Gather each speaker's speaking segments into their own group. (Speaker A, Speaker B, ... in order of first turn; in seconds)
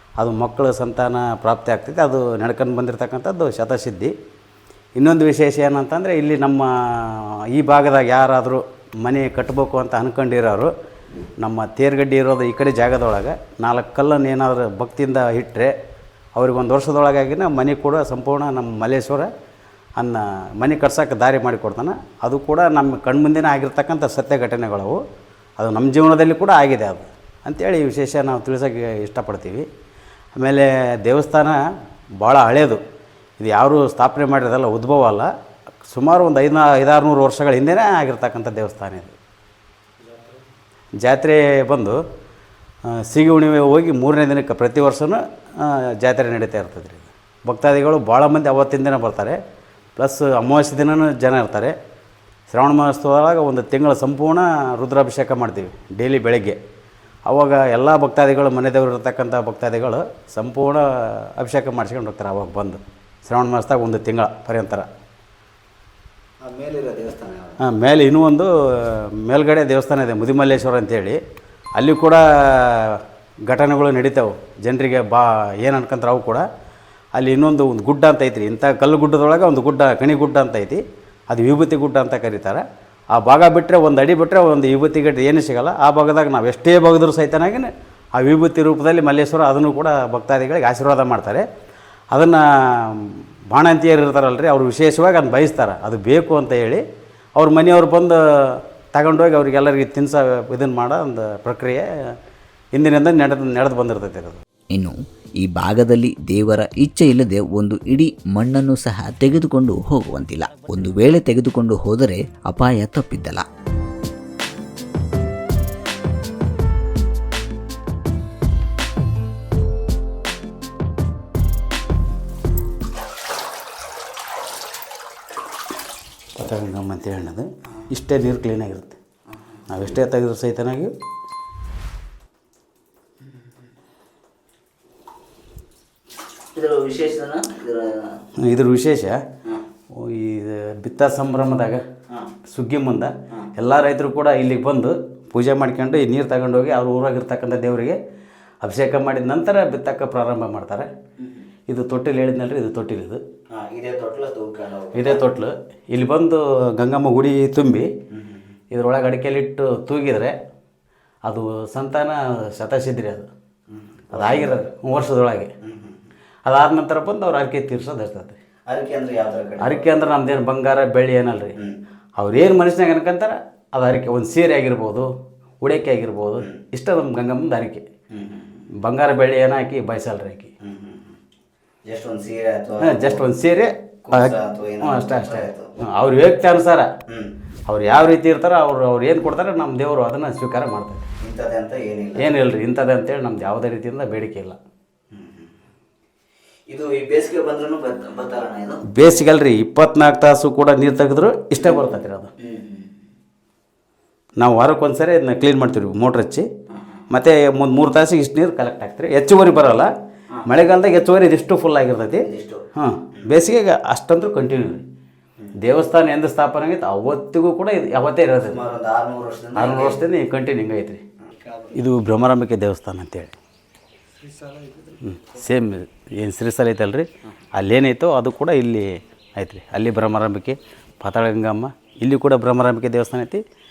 Speaker A: 0.2-4.1, 5.0-10.7, 11.4-15.7, 16.4-19.3, 20.0-25.0, 25.6-29.7, 30.3-31.6, 32.2-32.8, 33.4-35.3, 35.9-39.1, 41.0-42.0, 42.9-49.4, 50.0-51.7, 52.5-56.6, 57.2-64.9, 67.6-71.2, 71.8-76.4, 77.1-91.5, 92.1-96.8, 97.4-101.8, 102.8-104.4, 126.3-129.0, 129.7-130.9, 138.4-139.2, 139.9-141.8, 142.4-148.0, 148.6-150.9, 151.7-153.2, 154.9-157.9, 158.7-160.3, 161.2-163.3, 164.1-165.5, 166.4-168.4, 169.6-171.6, 172.2-177.8, 178.8-180.5, 182.8-186.9, 187.7-191.1, 192.2-194.6, 198.8-202.3, 204.4-206.5, 207.1-209.9, 210.4-214.8, 215.6-218.6, 219.5-221.0, 221.7-223.3, 224.9-233.4
Speaker B: 66.4-67.5, 104.7-113.4, 136.5-138.2, 153.5-155.2, 164.1-164.6, 168.7-169.9, 178.1-178.6, 180.6-181.1, 181.9-183.2, 184.0-185.7, 191.2-192.3, 196.7-198.9, 201.6-202.9, 212.2-212.6, 218.4-220.0